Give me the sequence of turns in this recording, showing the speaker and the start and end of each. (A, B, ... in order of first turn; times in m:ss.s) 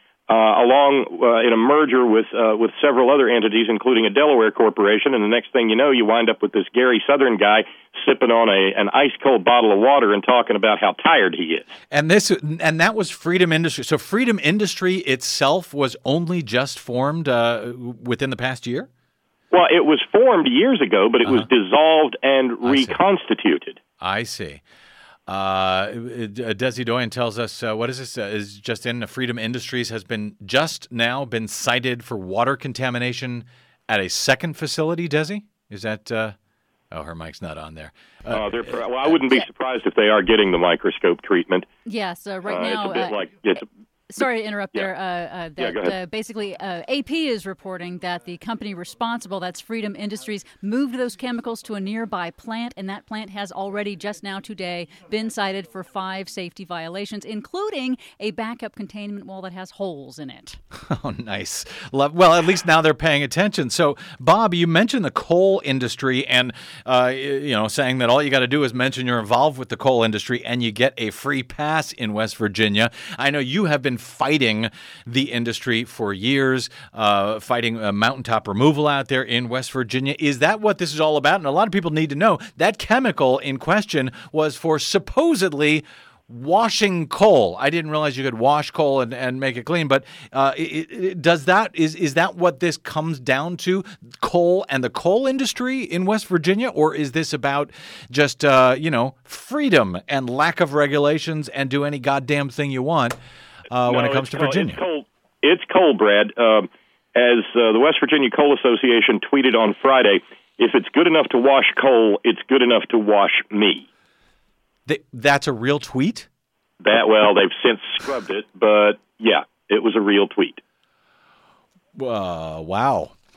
0:00.3-0:11.7 A
0:11.9-0:18.9 B
0:19.5-0:23.8 A
0:22.6-0:23.0 B
0:24.0-0:24.6 B
0:25.3-0:36.3 B
0:36.9-0:39.2 B
0:38.3-0:41.7 A
0:41.8-0:43.2 C
0:42.4-0:43.6 A
0:44.1-1:00.6 C
0:44.2-0:44.9 A
0:45.6-0:46.0 A
1:00.8-1:43.2 B
1:43.7-1:44.8 B
1:43.8-1:53.8 A
1:54.8-1:56.3 B
1:56.8-2:00.6 A
2:02.0-2:03.1 B